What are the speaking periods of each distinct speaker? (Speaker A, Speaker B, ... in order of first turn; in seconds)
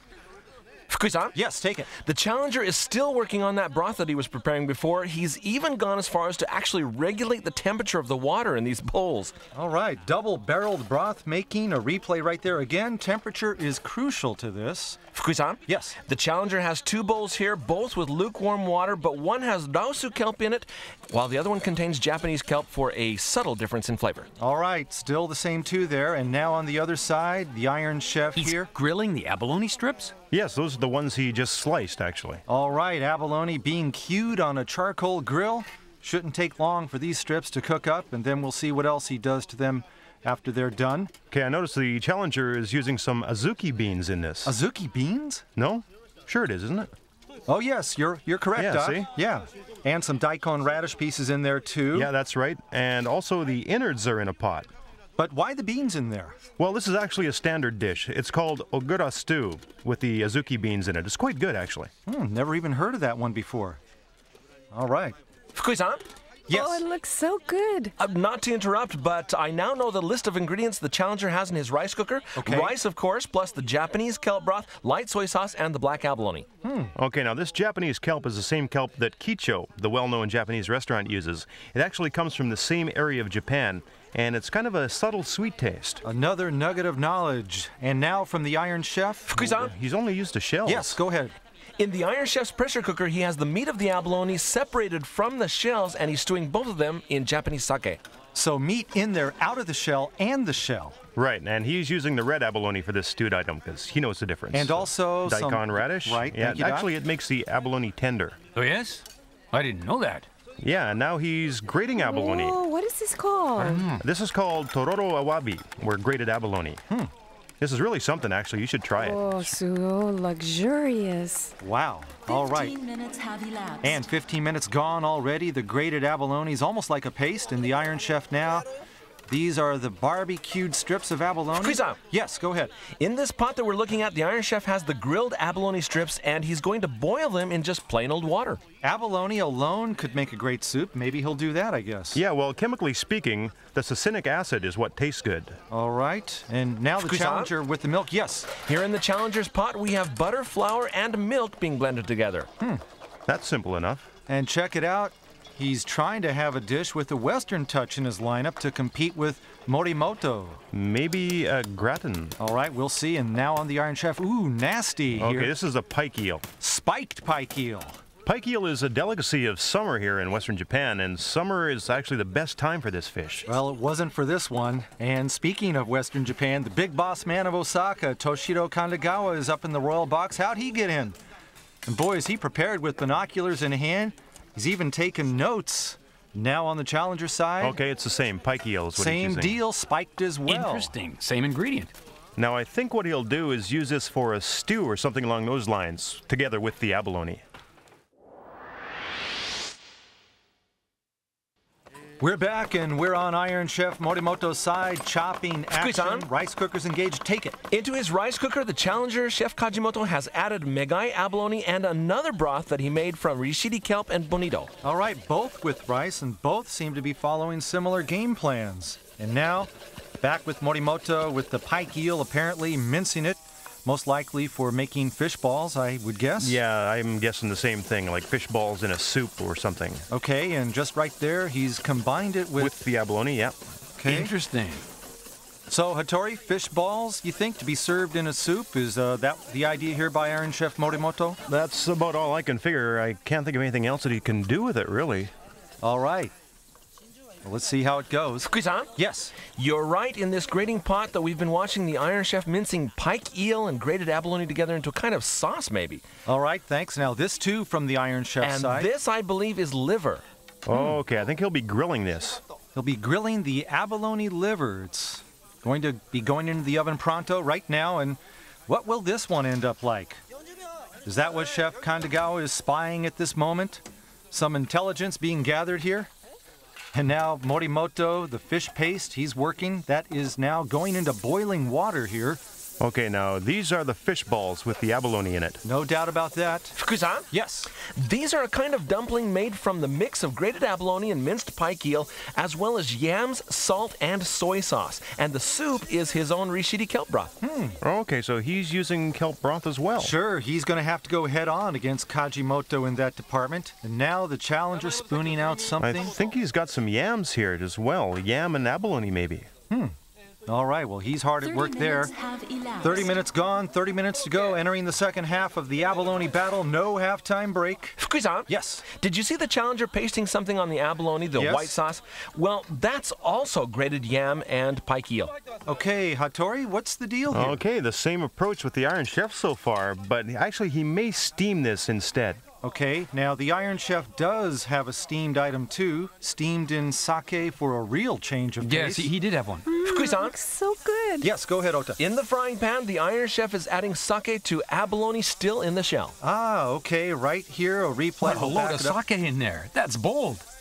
Speaker A: 0.9-1.4, 2.0-9.3, 15.1-24.3, 65.5-66.0, 68.0-76.5, 89.3-89.7, 91.8-98.0, 131.6-132.0, 133.0-138.6, 147.0-147.5, 148.6-152.5, 205.7-206.3, 207.7-214.7, 248.4-248.9, 249.4-256.0, 258.4-260.2, 286.8-287.2, 287.8-297.3, 318.0-325.3, 339.8-340.3, 342.0-346.1
Speaker B: 1.3-1.9, 9.5-15.0, 15.7-16.0, 24.4-28.7, 32.5-41.1, 44.4-45.4, 47.5-52.1, 55.2-56.4, 62.0-63.8, 64.7-65.2, 66.5-66.8, 72.4-72.8, 76.6-76.9, 86.0-89.4, 90.6-91.3, 98.3-101.0, 104.5-106.9, 121.6-122.7, 123.8-128.7, 129.3-132.7, 138.8-142.2, 145.7-148.5, 154.3-160.6, 162.4-165.5, 166.6-168.0, 173.5-181.2, 181.9-187.8, 188.9-190.9, 202.2-207.6, 214.8-226.6, 230.1-232.7, 234.0-234.3, 235.7-241.4, 245.8-246.3, 247.4-249.3, 256.2-258.9, 262.7-270.2, 271.0-276.1, 276.9-282.4, 285.6-286.8, 287.3-287.7, 297.4-297.8, 299.9-306.1, 309.7-309.9, 310.5-312.1, 312.8-318.0, 318.5-318.8, 321.4-321.7, 325.7-327.6, 332.6-339.1, 341.2-342.0, 346.2-349.0
Speaker C: 28.4-30.1, 108.5-110.3, 113.6-114.0, 190.5-191.9, 234.0-234.8, 338.6-339.7, 348.2-350.4
Speaker D: 30.3-32.4, 41.3-44.5, 45.5-46.9, 48.5-49.1, 51.9-54.7, 56.6-61.9, 77.0-86.0, 89.4-91.0, 101.2-108.4, 110.6-112.6, 114.0-116.8, 117.6-119.5, 142.1-145.6, 153.3-154.1, 160.7-162.3, 165.1-166.4, 168.2-173.5, 187.6-189.6, 192.4-197.4, 226.4-230.0, 232.6-233.6, 241.5-245.3, 260.6-262.4, 282.8-285.6, 297.8-300.1, 305.8-309.5, 327.3-332.4
Speaker E: 66.5-67.9, 112.0-113.9, 119.0-121.5, 339.6-341.3
Speaker F: 122.2-124.0, 311.4-313.3